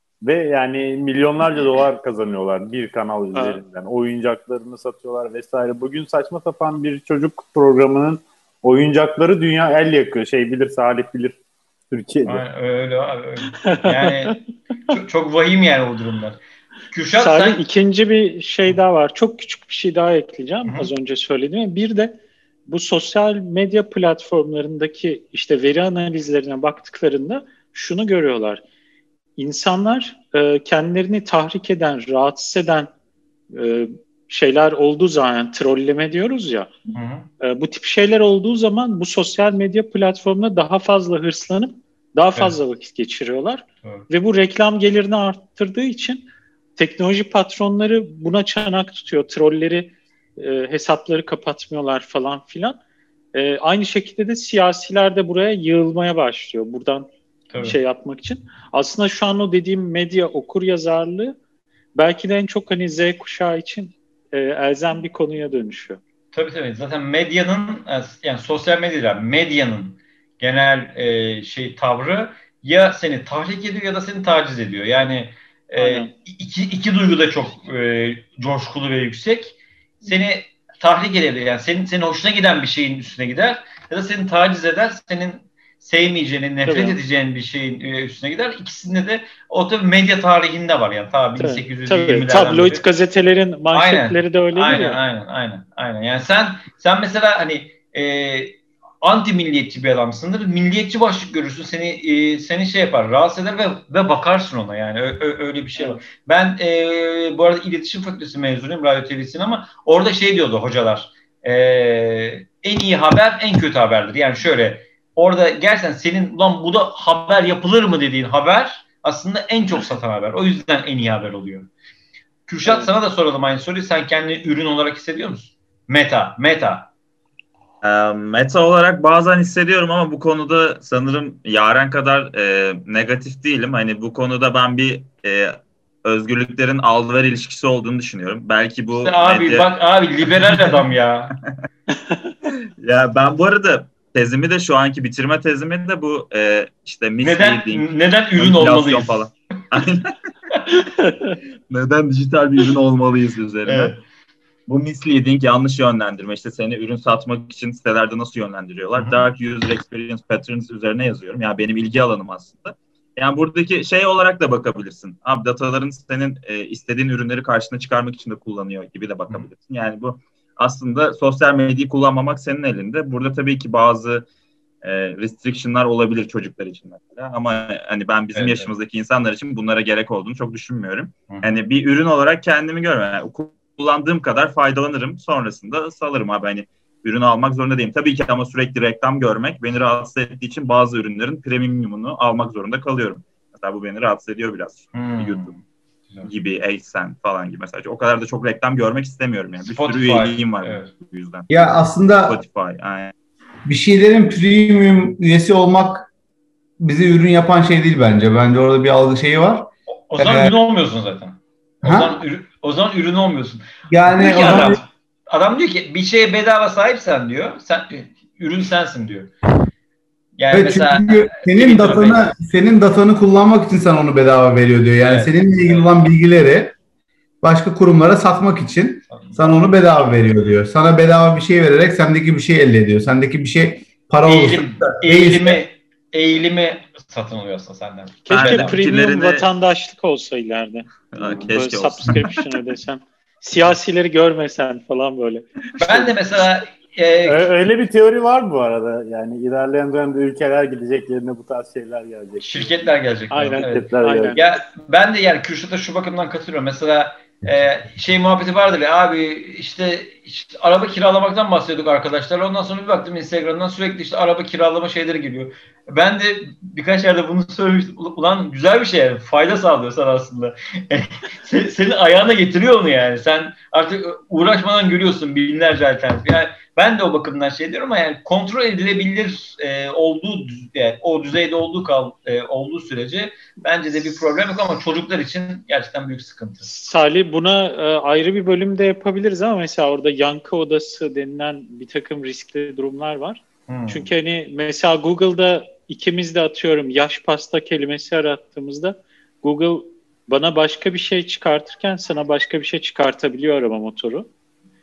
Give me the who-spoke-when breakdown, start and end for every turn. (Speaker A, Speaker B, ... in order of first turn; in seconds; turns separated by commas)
Speaker A: 0.2-11.4, Speaker B: 3.3-3.6, Speaker A: 11.9-12.4, Speaker C: 12.2-16.4, Speaker B: 13.6-14.4, Speaker C: 16.9-17.6, Speaker B: 17.1-28.6, Speaker B: 29.4-32.9, Speaker B: 33.5-36.7, Speaker C: 36.9-37.3, Speaker B: 37.4-52.8, Speaker B: 53.3-57.1, Speaker C: 57.5-57.8, Speaker B: 57.6-61.4, Speaker B: 61.9-66.0, Speaker C: 66.3-92.8, Speaker B: 75.8-76.1, Speaker B: 86.7-87.0, Speaker B: 91.4-95.0, Speaker C: 93.7-121.7, Speaker B: 105.8-106.0, Speaker C: 122.5-126.9, Speaker D: 127.8-139.7, Speaker C: 138.9-141.4, Speaker D: 142.5-150.2, Speaker C: 147.2-149.3, Speaker B: 151.1-151.3, Speaker D: 151.7-153.9, Speaker C: 153.7-154.0, Speaker D: 154.7-174.2, Speaker C: 158.9-159.2, Speaker D: 174.8-195.6, Speaker C: 178.3-178.7, Speaker C: 194.9-196.3, Speaker D: 196.2-203.1, Speaker C: 199.6-200.9, Speaker E: 201.5-202.4, Speaker E: 203.7-206.1, Speaker E: 206.8-210.5, Speaker C: 210.1-219.3, Speaker E: 211.8-212.2, Speaker E: 213.9-214.8, Speaker C: 220.4-222.3, Speaker E: 220.5-226.7, Speaker C: 225.0-226.0, Speaker E: 227.4-235.6, Speaker C: 229.1-229.6, Speaker C: 234.2-238.8, Speaker B: 238.2-245.5, Speaker D: 238.3-239.5, Speaker D: 241.1-242.4, Speaker C: 245.8-247.5, Speaker A: 247.2-252.8, Speaker C: 252.4-286.7, Speaker B: 253.3-254.4, Speaker A: 253.6-254.4, Speaker B: 286.6-304.3, Speaker C: 293.7-294.1